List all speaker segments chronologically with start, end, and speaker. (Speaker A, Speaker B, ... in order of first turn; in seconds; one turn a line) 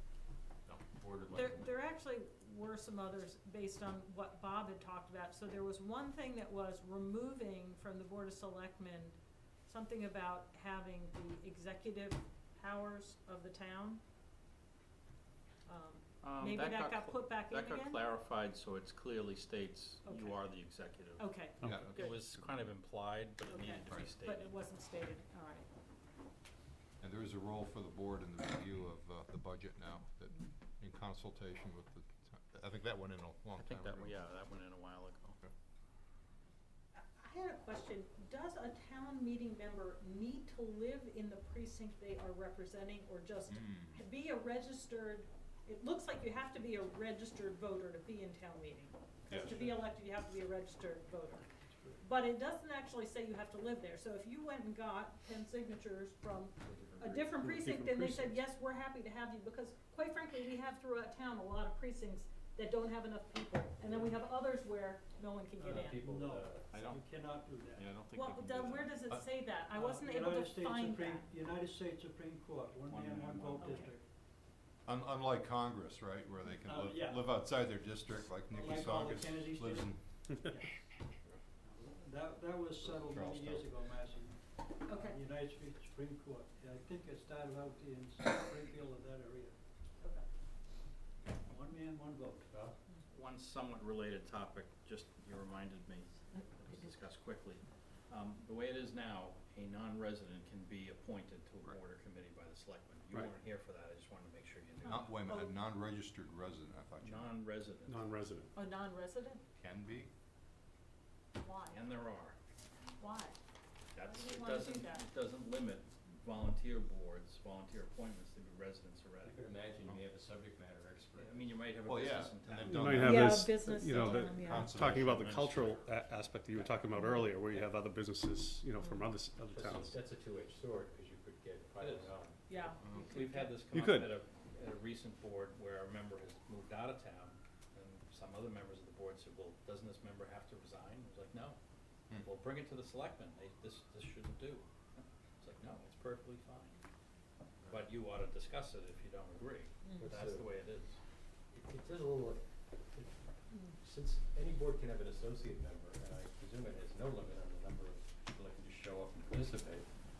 Speaker A: 0.7-1.7
Speaker B: 1.3-14.0
Speaker B: 15.7-18.0
Speaker C: 16.2-24.6
Speaker B: 20.0-20.5
Speaker B: 21.2-22.2
Speaker D: 21.6-22.7
Speaker B: 23.4-25.6
Speaker D: 27.0-34.2
Speaker C: 33.5-35.4
Speaker B: 37.1-51.5
Speaker D: 43.5-44.0
Speaker D: 49.3-49.6
Speaker E: 49.5-49.8
Speaker E: 51.7-52.0
Speaker B: 52.0-66.0
Speaker A: 56.6-57.3
Speaker F: 57.4-58.4
Speaker E: 65.6-67.9
Speaker A: 65.6-66.7
Speaker C: 66.7-67.0
Speaker C: 67.8-69.0
Speaker B: 68.1-71.3
Speaker D: 69.1-69.4
Speaker E: 69.7-74.0
Speaker C: 72.9-73.9
Speaker D: 74.8-80.0
Speaker E: 76.6-77.5
Speaker E: 78.1-80.7
Speaker C: 81.1-81.4
Speaker E: 81.6-89.5
Speaker D: 82.8-83.7
Speaker B: 84.8-85.2
Speaker E: 91.4-92.5
Speaker C: 93.1-105.1
Speaker B: 96.3-96.9
Speaker B: 104.8-105.5
Speaker D: 104.8-107.3
Speaker C: 107.0-108.1
Speaker F: 107.9-108.5
Speaker B: 108.5-109.4
Speaker D: 109.6-110.1
Speaker B: 111.4-111.9
Speaker C: 111.7-112.3
Speaker B: 113.0-113.4
Speaker C: 113.9-119.4
Speaker B: 114.0-115.0
Speaker A: 119.2-121.5
Speaker C: 121.1-123.2
Speaker D: 121.8-125.9
Speaker F: 122.7-130.0
Speaker B: 123.0-124.8
Speaker C: 124.9-125.7
Speaker C: 127.4-127.7
Speaker B: 128.8-129.1
Speaker A: 129.5-132.4
Speaker C: 131.8-132.1
Speaker B: 132.5-133.6
Speaker D: 132.8-133.2
Speaker C: 133.0-141.6
Speaker F: 133.7-134.1
Speaker C: 142.1-146.8
Speaker C: 147.7-151.0
Speaker A: 150.0-150.5
Speaker A: 151.5-153.2
Speaker A: 153.8-159.9